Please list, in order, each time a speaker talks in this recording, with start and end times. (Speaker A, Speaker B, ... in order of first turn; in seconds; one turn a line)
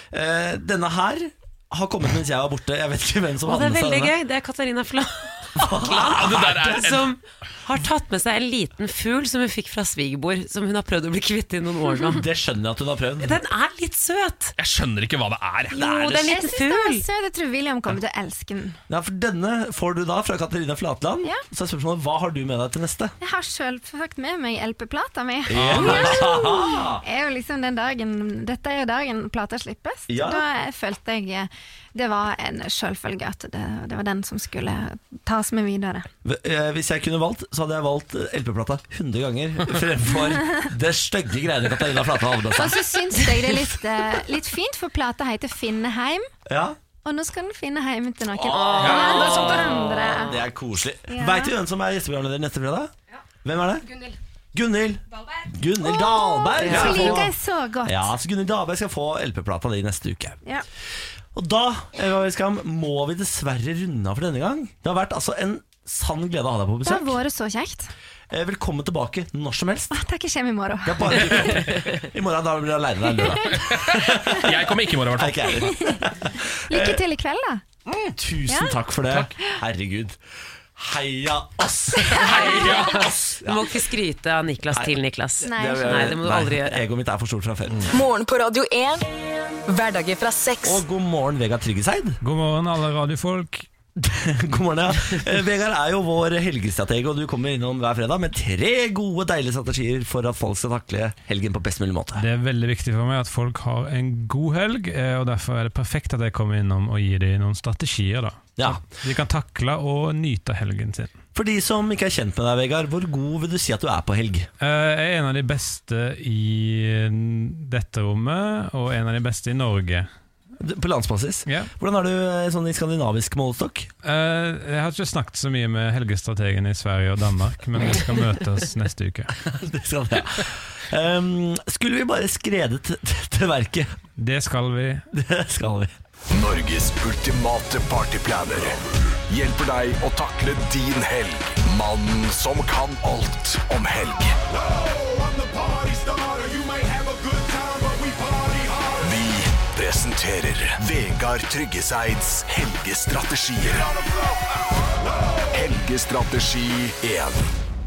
Speaker A: 0.1-4.1
Speaker B: 3.5-12.2
Speaker A: 5.6-6.8
Speaker C: 6.0-7.1
Speaker A: 12.0-13.4
Speaker B: 13.2-14.6
Speaker C: 14.6-16.0
Speaker B: 15.7-17.0
Speaker A: 15.9-16.3
Speaker D: 16.3-18.8
Speaker A: 18.9-23.1
Speaker D: 23.2-36.1
Speaker A: 25.5-27.0
Speaker C: 25.5-26.1
Speaker A: 30.1-30.4
Speaker A: 36.2-42.8
Speaker D: 42.6-46.3
Speaker A: 46.5-46.8
Speaker D: 47.0-50.4
Speaker A: 48.4-52.9
Speaker B: 48.6-49.5
Speaker C: 48.8-49.9
Speaker D: 51.1-51.5
Speaker A: 53.4-53.9
Speaker A: 54.5-57.3
Speaker D: 55.8-58.1
Speaker B: 56.6-57.3
Speaker A: 57.9-60.4
Speaker A: 61.3-67.2
Speaker D: 66.8-67.9
Speaker A: 68.3-70.0
Speaker D: 69.9-71.8
Speaker A: 70.8-74.5
Speaker C: 73.6-75.5
Speaker A: 75.2-77.0
Speaker D: 75.6-76.0
Speaker D: 76.7-77.6
Speaker A: 77.9-80.2
Speaker D: 78.5-78.8
Speaker A: 80.8-83.7
Speaker B: 82.3-86.8
Speaker C: 82.5-83.1
Speaker A: 84.7-87.9
Speaker D: 85.4-86.2
Speaker E: 87.9-89.0
Speaker E: 89.7-90.8
Speaker A: 90.6-92.2
Speaker F: 92.2-93.7
Speaker A: 94.0-102.2
Speaker F: 102.2-111.1
Speaker A: 108.6-108.8
Speaker A: 111.3-114.5
Speaker F: 114.6-120.1
Speaker A: 120.6-123.9
Speaker F: 124.0-129.3
Speaker A: 129.4-133.9
Speaker F: 134.2-135.1
Speaker A: 135.1-135.9
Speaker G: 136.3-144.5
Speaker G: 145.3-154.0
Speaker G: 155.5-157.5